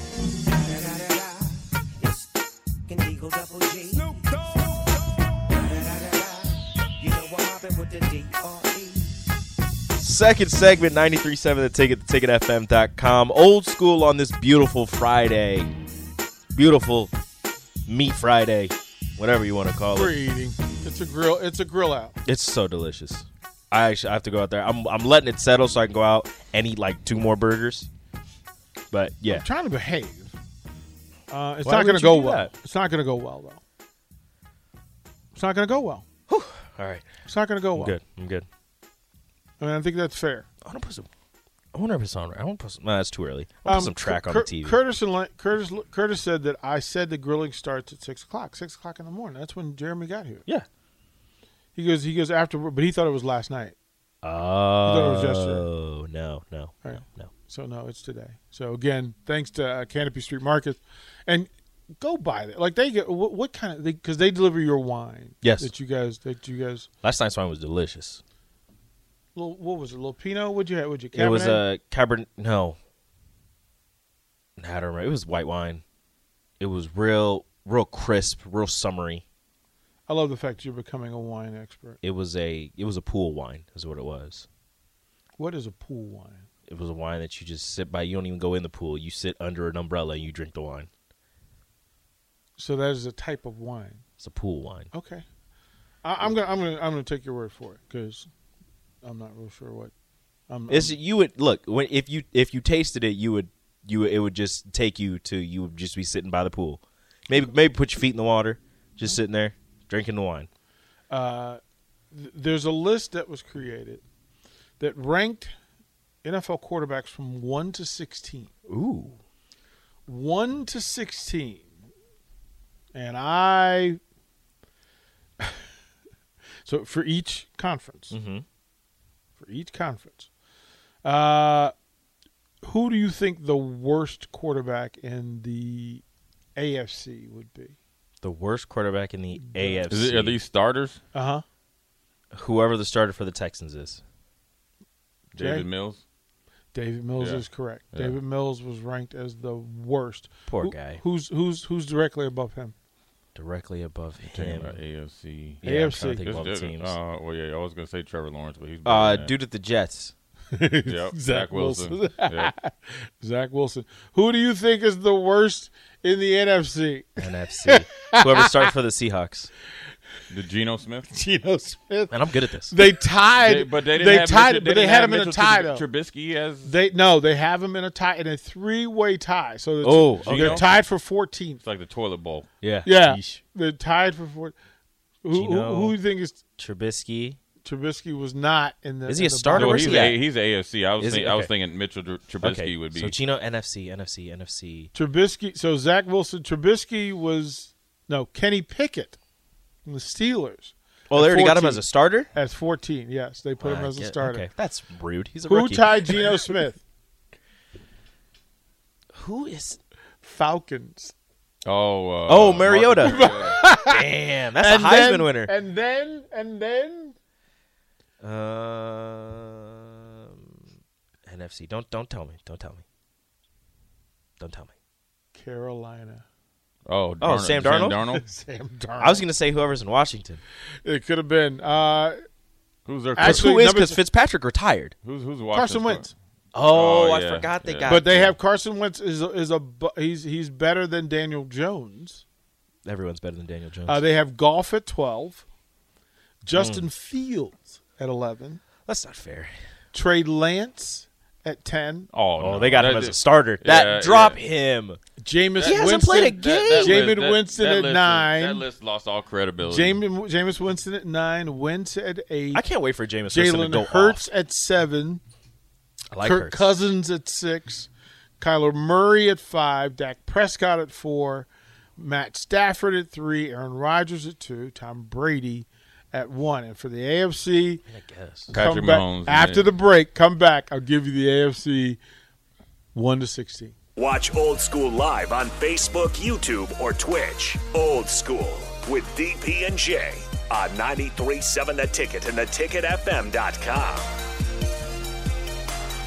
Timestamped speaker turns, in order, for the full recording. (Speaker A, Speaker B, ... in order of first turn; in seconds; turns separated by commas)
Speaker A: 0.7-1.4, Speaker A: 2.9-4.6, Speaker A: 5.5-9.2, Speaker B: 10.0-15.7, Speaker B: 16.5-17.1, Speaker B: 17.9-20.2, Speaker C: 19.9-22.2, Speaker B: 22.2-27.9, Speaker B: 28.9-29.4, Speaker C: 29.3-30.3, Speaker C: 31.3-33.6, Speaker B: 31.6-32.5, Speaker C: 35.3-36.0, Speaker B: 36.3-37.1, Speaker C: 37.2-38.0, Speaker B: 37.8-38.5, Speaker C: 39.6-40.5, Speaker B: 40.6-41.1, Speaker B: 41.7-44.8, Speaker C: 43.6-50.4, Speaker C: 51.7-53.8, Speaker B: 54.2-57.3, Speaker C: 54.8-55.7, Speaker C: 56.8-66.9, Speaker B: 65.4-65.7, Speaker B: 67.0-68.2, Speaker C: 69.3-71.7, Speaker B: 71.1-72.8, Speaker B: 74.6-75.8, Speaker B: 76.6-79.2, Speaker C: 80.1-82.0, Speaker B: 82.0-84.5, Speaker C: 85.4-86.5, Speaker B: 86.7-90.9, Speaker C: 92.6-94.0, Speaker B: 94.2-94.9, Speaker C: 94.9-95.2, Speaker C: 96.0-98.3, Speaker C: 99.0-99.9, Speaker C: 100.5-101.0, Speaker B: 100.7-110.5, Speaker C: 111.1-111.6, Speaker C: 112.1-114.0, Speaker C: 114.8-115.5, Speaker C: 116.2-118.5, Speaker B: 118.7-119.2, Speaker C: 120.1-121.8, Speaker C: 122.9-124.0, Speaker C: 125.4-125.7, Speaker C: 126.6-128.2, Speaker B: 128.1-128.4, Speaker C: 129.3-130.3, Speaker C: 131.0-131.7, Speaker C: 132.6-136.0, Speaker C: 136.6-137.8, Speaker B: 138.2-140.4, Speaker D: 139.8-141.0, Speaker C: 141.1-141.4, Speaker B: 142.3-144.0, Speaker D: 145.3-146.0, Speaker C: 145.4-145.7, Speaker C: 146.7-152.7, Speaker D: 147.2-148.2, Speaker B: 150.5-151.0, Speaker B: 153.3-154.8, Speaker D: 154.2-159.3, Speaker B: 155.6-157.0, Speaker C: 155.6-156.2, Speaker B: 158.8-160.1, Speaker C: 160.5-168.7, Speaker D: 160.8-162.5, Speaker B: 167.2-169.5, Speaker D: 170.3-171.1, Speaker C: 171.1-175.8, Speaker B: 172.1-172.8, Speaker D: 173.4-176.7, Speaker C: 176.6-181.6, Speaker B: 179.8-180.6, Speaker D: 180.2-180.7, Speaker D: 181.6-182.5, Speaker B: 182.6-183.4, Speaker C: 182.8-184.6, Speaker C: 185.2-186.4, Speaker B: 185.3-186.0, Speaker B: 186.6-187.4, Speaker C: 187.6-190.1, Speaker B: 189.1-190.2, Speaker D: 189.5-193.2, Speaker B: 191.0-191.5, Speaker B: 192.4-194.9, Speaker C: 194.9-199.2, Speaker C: 199.8-204.4, Speaker B: 201.1-202.3, Speaker B: 203.6-206.4, Speaker C: 205.4-206.8, Speaker B: 209.1-209.8, Speaker C: 210.2-211.1, Speaker D: 211.7-213.6, Speaker B: 212.2-215.5, Speaker C: 213.0-217.2, Speaker B: 218.2-220.5, Speaker B: 221.2-222.8, Speaker B: 224.4-224.7, Speaker C: 225.3-226.2, Speaker D: 226.9-228.2, Speaker B: 227.2-228.0, Speaker C: 227.9-229.3, Speaker B: 229.0-230.4, Speaker C: 230.8-232.2, Speaker D: 232.8-233.5, Speaker C: 233.1-234.0, Speaker B: 233.2-234.9, Speaker D: 235.0-236.1, Speaker C: 235.5-236.1, Speaker B: 236.5-238.3, Speaker D: 236.6-238.3, Speaker C: 237.8-242.2, Speaker B: 242.8-244.0, Speaker C: 243.8-245.4, Speaker C: 246.4-248.6, Speaker B: 246.5-246.9, Speaker B: 248.8-249.5, Speaker C: 249.9-252.1, Speaker D: 252.1-254.4, Speaker B: 252.4-255.0, Speaker C: 255.2-258.6, Speaker D: 255.6-260.0, Speaker B: 255.6-257.1, Speaker C: 259.6-262.6, Speaker B: 262.5-264.2, Speaker C: 263.3-265.2, Speaker B: 266.1-266.7, Speaker C: 266.2-277.8, Speaker B: 277.9-278.5, Speaker D: 278.5-279.7, Speaker C: 278.5-282.0, Speaker C: 282.9-283.7, Speaker E: 284.0-294.1